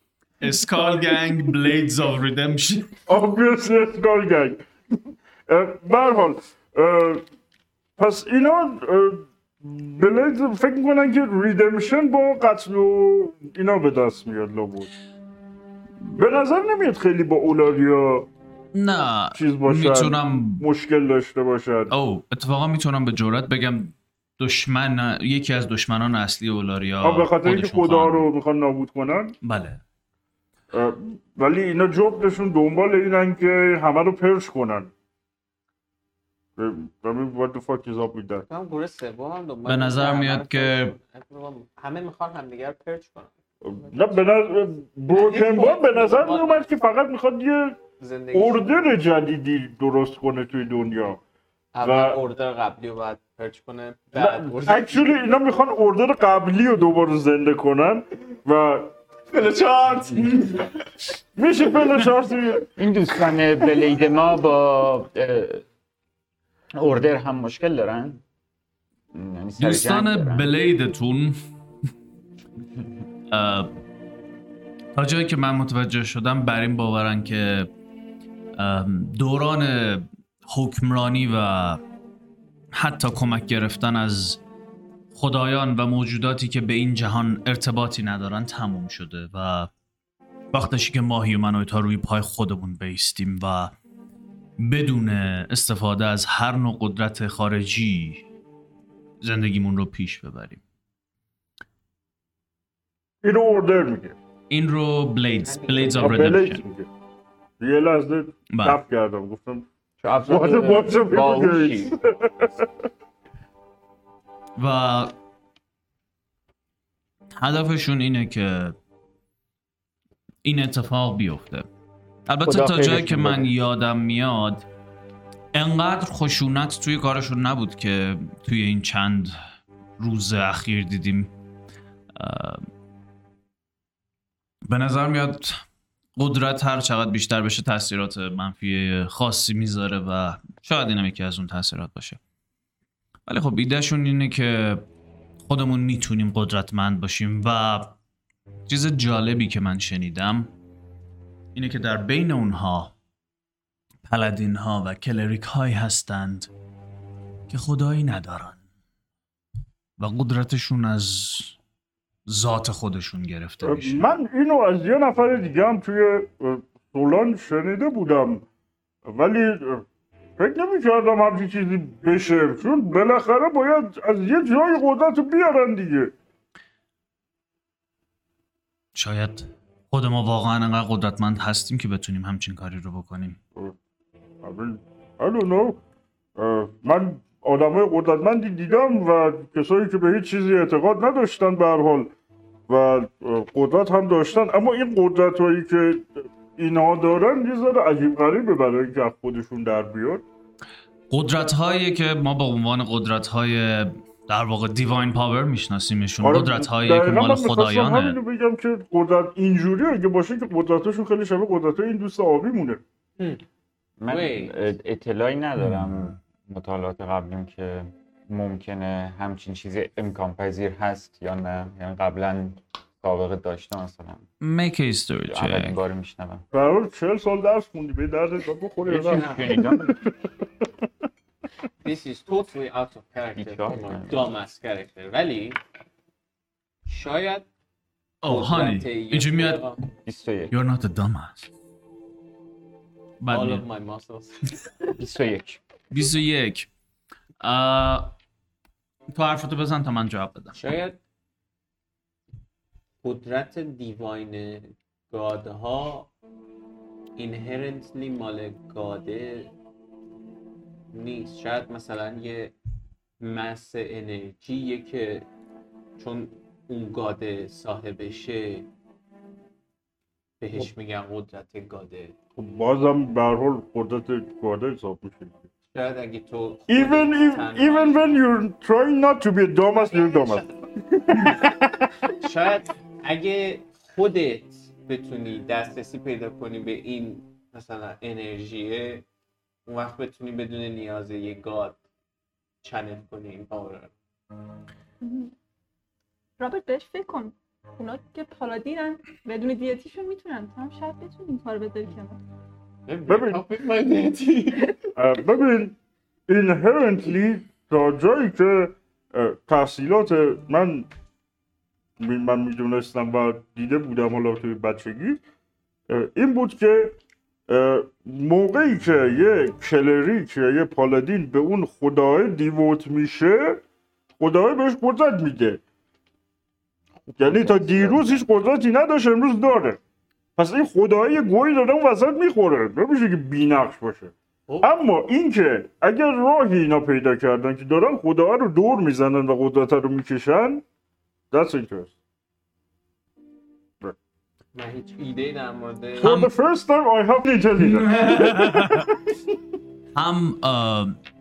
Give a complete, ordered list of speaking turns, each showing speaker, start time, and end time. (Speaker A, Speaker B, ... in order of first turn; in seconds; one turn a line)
Speaker A: 0.4-3.0
Speaker B: 3.1-4.7
Speaker B: 5.5-7.2
Speaker B: 8.0-14.9
Speaker B: 16.2-18.3
Speaker A: 18.7-20.6
Speaker B: 19.3-21.9
Speaker A: 21.9-28.3
Speaker B: 27.0-29.3
Speaker A: 29.4-29.8
Speaker B: 30.7-34.9
Speaker B: 36.6-38.5
Speaker C: 38.5-43.3
Speaker A: 39.6-41.0
Speaker B: 43.6-47.8
Speaker C: 43.8-44.2
Speaker C: 45.1-46.7
Speaker C: 48.0-48.9
Speaker B: 48.3-51.2
Speaker C: 51.7-55.1
Speaker B: 51.8-52.2
Speaker B: 54.1-59.0
Speaker C: 59.3-60.8
Speaker B: 61.4-62.7
Speaker D: 62.8-65.6
Speaker D: 66.7-68.2
Speaker D: 69.1-70.5
Speaker A: 69.6-71.4
Speaker A: 73.3-73.7
Speaker A: 74.9-77.7
Speaker A: 78.5-81.8
Speaker A: 82.7-84.4
Speaker A: 85.1-89.7
Speaker A: 90.5-93.7
Speaker A: 94.6-98.2
Speaker A: 99.2-100.6
Speaker B: 103.2-104.2
Speaker A: 104.5-106.6
Speaker C: 105.4-106.4
Speaker B: 106.0-106.9
Speaker B: 107.6-109.7
Speaker A: 108.5-108.8
Speaker D: 110.0-112.0
Speaker B: 110.3-112.7
Speaker A: 114.5-115.1
Speaker A: 117.4-118.8
Speaker A: 120.4-121.7
Speaker A: 122.3-124.7
Speaker D: 122.4-123.5
Speaker A: 125.5-129.4
Speaker A: 130.0-131.3
Speaker A: 132.2-132.7
Speaker A: 134.7-135.5
Speaker A: 136.2-142.2
Speaker A: 143.3-144.8
Speaker A: 145.4-147.9
Speaker A: 148.7-150.5
Speaker A: 151.5-152.9
Speaker A: 154.1-156.5
Speaker A: 157.5-158.6
Speaker A: 160.0-161.6
Speaker A: 162.3-164.1
Speaker B: 163.6-168.4
Speaker B: 169.0-169.8
Speaker B: 170.4-176.1
Speaker A: 178.9-183.4
Speaker B: 184.4-185.8
Speaker B: 186.4-192.1
Speaker B: 192.7-200.2
Speaker A: 201.1-208.2
Speaker B: 206.2-212.8
Speaker D: 214.0-224.2
Speaker C: 214.1-214.6
Speaker A: 224.4-225.8
Speaker D: 225.3-226.4
Speaker B: 226.5-230.0
Speaker D: 228.9-230.0
Speaker C: 231.8-235.6
Speaker D: 233.3-234.3
Speaker C: 236.9-237.4
Speaker A: 238.2-239.7
Speaker C: 238.3-239.8
Speaker D: 240.1-240.5
Speaker A: 240.5-241.5
Speaker A: 243.2-243.6
Speaker C: 243.3-244.9
Speaker D: 245.0-245.6
Speaker A: 245.9-246.7
Speaker A: 247.4-248.1
Speaker A: 249.1-250.6
Speaker C: 250.5-251.0
Speaker C: 253.0-256.1
Speaker C: 257.1-259.5
Speaker C: 260.9-262.5
Speaker C: 263.2-265.3
Speaker C: 266.0-268.7
Speaker C: 270.4-272.1
Speaker B: 272.4-275.4
Speaker C: 275.7-278.2
Speaker B: 276.7-280.5
Speaker C: 279.9-280.3
Speaker B: 281.1-281.9
Speaker C: 282.1-289.0
Speaker C: 289.6-291.8
Speaker C: 292.6-293.9
Speaker E: 295.0-295.3
Speaker E: 296.4-302.2
Speaker C: 302.9-304.8
Speaker B: 303.1-303.4
Speaker B: 304.9-310.9
Speaker B: 312.0-315.2
Speaker B: 315.9-317.0
Speaker B: 317.5-323.6
Speaker B: 324.2-325.6
Speaker B: 327.1-329.8
Speaker D: 327.2-328.2
Speaker B: 330.4-340.6
Speaker C: 334.5-334.7
Speaker B: 341.3-341.9
Speaker C: 344.5-346.1
Speaker B: 346.0-348.9
Speaker A: 346.0-346.3
Speaker A: 347.6-348.9
Speaker A: 349.9-351.0